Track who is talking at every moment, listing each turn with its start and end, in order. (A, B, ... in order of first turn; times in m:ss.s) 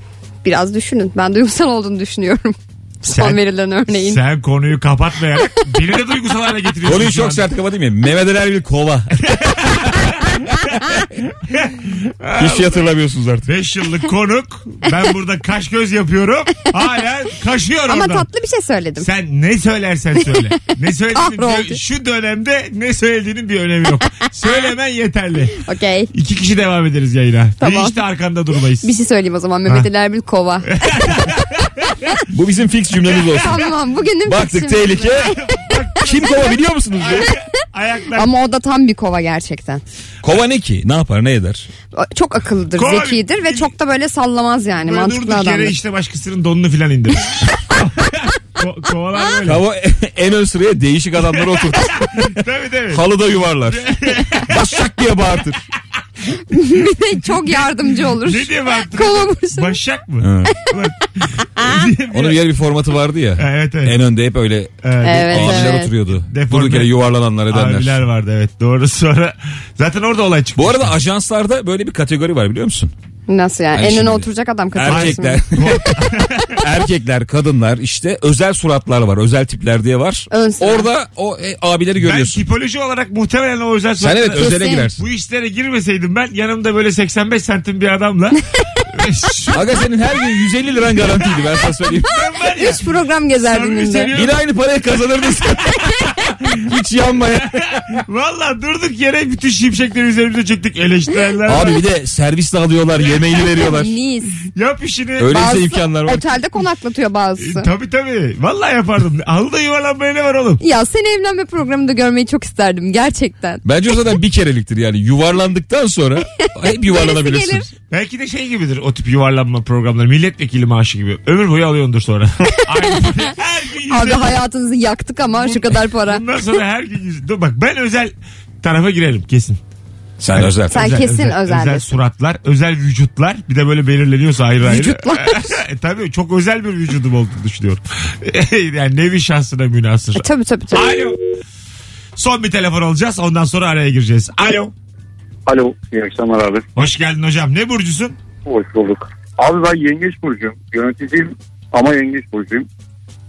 0:00.4-0:04.2 A
0:03.1-0:07.5 B
0:06.8-0:09.2 C
0:09.2-0:12.9 B
0:12.4-0:13.5 C
0:13.4-0:18.3 B
0:17.9-0:19.1 A
0:19.0-0:25.6 B
0:21.2-0:21.8 A
0:25.6-0:26.1 A
0:26.1-0:28.9 B
0:27.6-0:28.0 A
0:28.8-0:31.0 A
0:30.7-0:32.1 B
0:32.3-0:33.7 C
0:33.4-0:36.5 A
0:34.3-0:35.4 C
0:35.4-0:36.5 B
0:36.0-0:37.3 C
0:37.1-0:38.3 B
0:38.2-0:39.8 A
0:40.2-0:41.7 C
0:41.9-0:45.8 A
0:42.8-0:43.7 B
0:44.8-0:49.6 B
0:49.4-0:52.1 C
0:52.1-0:54.7 B
0:52.9-0:55.6 C
0:56.5-0:59.8 A
0:58.1-1:02.5 B
1:00.2-1:00.5 C
1:02.1-1:04.7 C
1:03.4-1:04.0 B
1:04.8-1:07.0 B
1:05.0-1:05.9 A
1:05.3-1:08.0 C
1:07.5-1:11.0 B
1:10.6-1:12.9 C
1:13.3-1:15.7 A
1:13.7-1:15.9 C
1:14.9-1:16.6 B
1:16.6-1:22.4 C
1:20.3-1:20.9 A
1:22.0-1:29.6 B
1:24.0-1:25.0 C
1:24.4-1:24.9 A
1:29.5-1:32.1 C
1:32.1-1:32.8 B
1:32.6-1:34.1 A
1:33.4-1:34.4 B
1:34.1-1:36.0 C
1:35.8-1:36.6 B
1:36.6-1:38.0 C
1:37.5-1:41.8 B
1:41.5-1:43.9 C
1:43.5-1:44.4 A
1:44.5-1:45.5 B
1:45.2-1:46.3 C
1:45.3-1:47.7 A
1:47.4-1:50.6 B
1:50.6-1:53.6 A
1:53.6-1:57.7 C
1:56.9-1:57.7 A
1:57.9-2:04.4 B
2:02.6-2:03.1 A
2:03.9-2:06.2 A
2:05.4-2:09.6 B
2:10.2-2:10.8 C
2:10.3-2:21.2 B
2:10.7-2:11.9 A
2:14.7-2:15.5 A
2:20.2-2:21.0 A
2:22.2-2:24.7 B
2:25.5-2:26.6 D
2:26.8-2:28.1 B
2:28.5-2:32.7 D